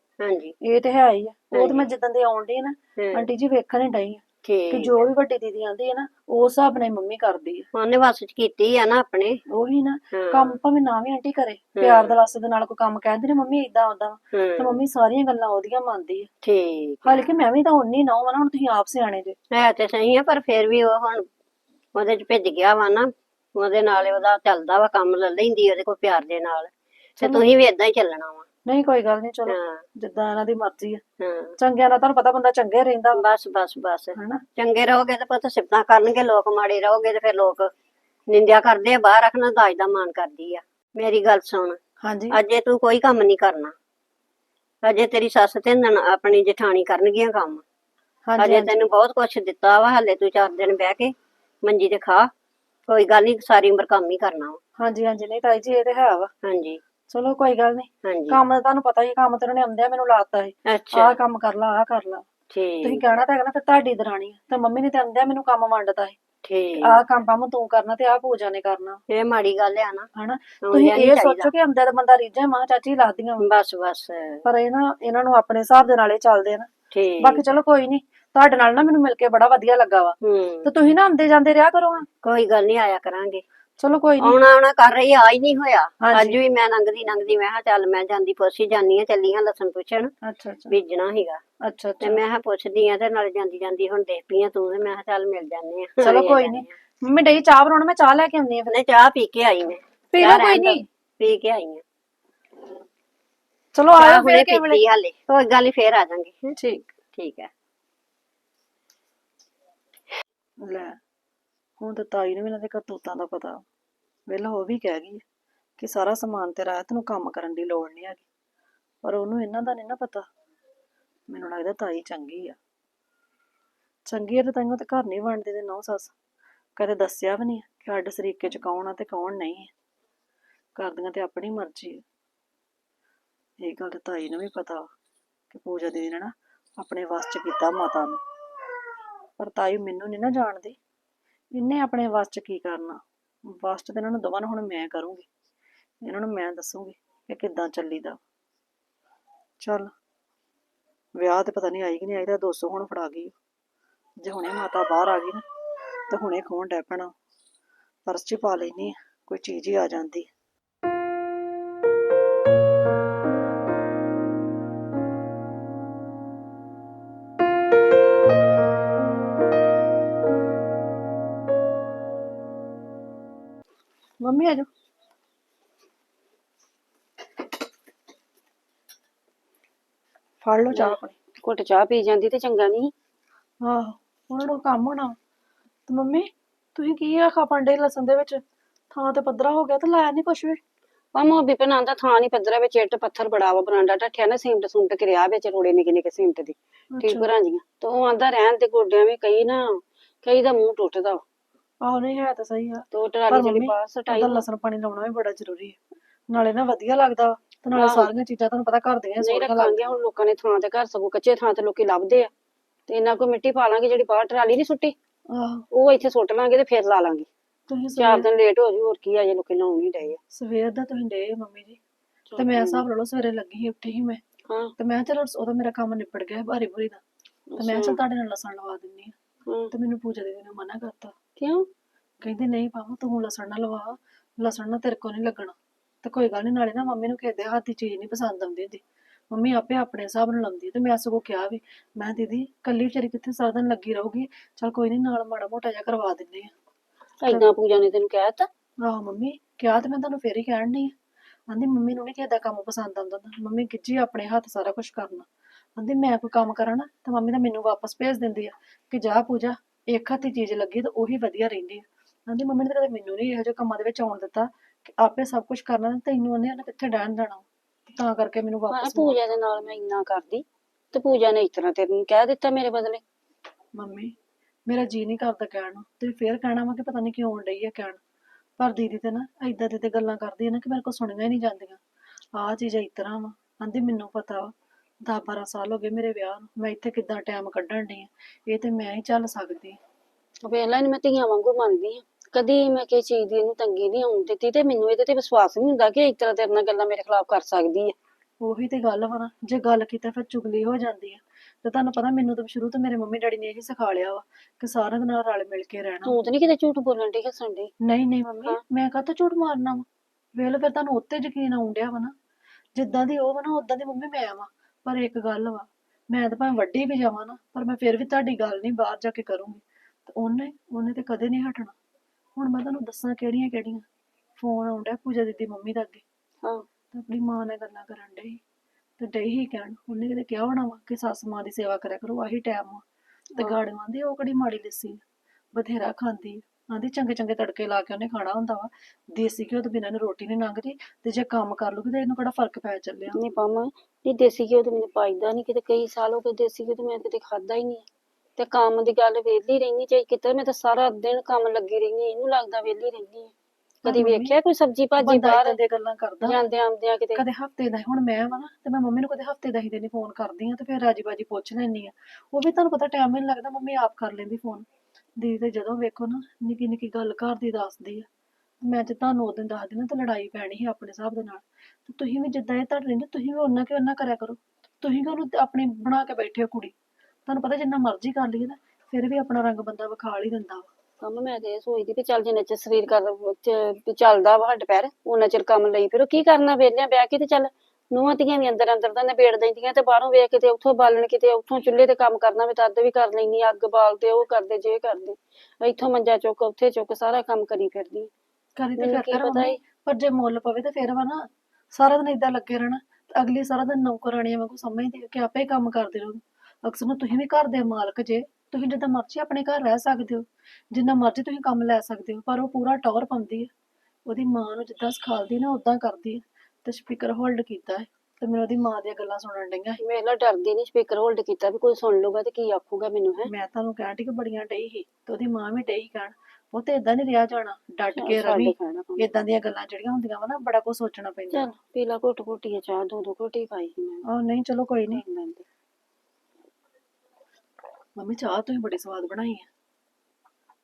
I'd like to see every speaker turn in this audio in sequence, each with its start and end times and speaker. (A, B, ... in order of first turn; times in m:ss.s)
0:00.2-0:00.6 A
0:00.6-0:07.7 B
0:01.5-0:01.9 A
0:03.0-0:03.3 A
0:04.4-0:05.1 A
0:07.8-0:09.4 A
0:09.5-0:16.3 B
0:10.1-0:10.6 A
0:11.8-0:12.2 A
0:14.3-0:14.8 A
0:16.4-0:17.4 A
0:17.0-0:19.4 B
0:19.5-0:21.3 A
0:22.0-0:28.5 A
0:27.2-0:27.5 B
0:28.7-0:31.0 B
0:29.5-0:29.8 A
0:31.2-0:31.6 A
0:31.6-0:33.2 B
0:33.2-0:37.7 A
0:34.2-0:34.4 B
0:38.3-0:41.8 A
0:42.0-0:42.4 B
0:42.3-0:43.8 A
0:44.8-0:47.6 A
0:48.3-0:48.8 B
0:48.4-0:52.3 A
0:52.9-0:54.6 A
0:54.8-0:56.3 B
0:56.4-0:56.8 A
0:57.1-1:02.3 B
0:58.0-0:58.4 A
1:00.7-1:01.2 A
1:02.5-1:03.1 A
1:02.8-1:06.2 B
1:06.4-1:07.0 A
1:06.8-1:09.0 B
1:09.1-1:10.1 A
1:10.2-1:13.5 B
1:10.7-1:11.5 A
1:13.4-1:14.4 A
1:14.4-1:22.1 B
1:16.9-1:17.6 A
1:20.2-1:20.7 A
1:22.2-1:23.4 A
1:23.8-1:24.4 B
1:24.2-1:30.1 A
1:26.0-1:26.4 B
1:30.2-1:30.8 B
1:30.7-1:31.4 A
1:31.6-1:32.2 B
1:32.0-1:36.7 A
1:36.0-1:38.7 B
1:38.7-1:41.8 A
1:40.1-1:40.9 B
1:43.8-1:44.8 B
1:44.0-1:46.5 A
1:46.6-1:46.9 B
1:47.2-1:47.5 A
1:50.6-1:51.0 B
1:51.8-1:53.6 B
1:54.3-1:55.2 B
1:55.8-1:58.2 B
1:59.0-2:00.3 B
2:01.3-2:02.6 B
2:04.1-2:06.1 B
2:06.8-2:09.7 B
2:10.8-2:12.0 B
2:13.6-2:14.9 B
2:15.5-2:18.2 B
2:19.4-2:20.8 B
2:21.5-2:25.3 B
2:26.0-2:28.2 B
2:29.6-2:29.9 B
2:31.2-2:33.4 B
2:34.2-2:35.4 B
2:36.1-2:37.1 B
2:38.1-2:40.3 B
2:54.2-2:54.7 B
3:00.4-3:01.2 B
3:00.7-3:02.9 C
3:03.6-3:05.2 B
3:05.9-3:08.4 B
3:08.9-3:10.6 B
3:11.2-3:21.2 C
3:16.9-3:17.3 B
3:21.8-3:25.8 B
3:22.9-3:24.4 C
3:26.3-3:29.9 B
3:27.7-3:28.1 C
3:29.2-3:32.3 C
3:32.9-3:35.0 C
3:35.3-3:35.6 B
3:35.7-3:37.3 C
3:37.7-3:38.3 B
3:38.0-3:40.2 C
3:40.3-3:41.8 B
3:42.3-3:42.8 C
3:42.4-3:44.2 B
3:44.8-3:47.0 B
3:47.5-3:48.0 C
3:47.6-3:49.1 B
3:49.7-3:51.1 B
3:51.4-3:51.7 C
3:52.2-4:06.5 B
4:07.2-4:08.5 C
4:07.3-4:07.5 B
4:08.8-4:10.9 B
4:11.5-4:29.3 B
4:28.7-4:33.0 C
4:33.8-4:34.1 B
4:34.7-4:38.0 B
4:38.6-4:41.8 B
4:42.4-4:44.5 B
4:45.1-4:49.8 B
4:50.4-4:58.0 C
4:58.4-5:06.2 B
5:06.1-5:07.7 C
5:07.8-5:09.8 B
5:10.4-5:12.1 B
5:12.8-5:21.8 B
5:22.4-5:23.8 B
5:24.4-5:26.0 B
5:26.9-5:28.4 B
5:29.0-5:32.8 B
5:33.4-5:35.0 B
5:35.6-5:43.2 B
5:43.1-5:47.9 C
5:48.4-5:53.3 C
5:53.8-5:54.4 B
5:53.9-5:55.6 C
5:55.0-5:56.4 B
5:56.2-5:57.2 C
5:57.2-6:04.7 B
6:05.2-6:08.1 B
6:08.6-6:16.7 B
6:17.3-6:20.7 B
6:21.0-6:38.1 C
6:38.6-6:53.5 B
6:38.8-6:39.6 C
6:54.1-6:59.8 B
6:59.8-7:03.3 C
7:03.3-7:11.5 B
7:08.0-7:09.1 C
7:11.3-7:14.0 C
7:14.1-7:15.0 B
7:14.9-7:15.4 C
7:18.0-7:19.5 B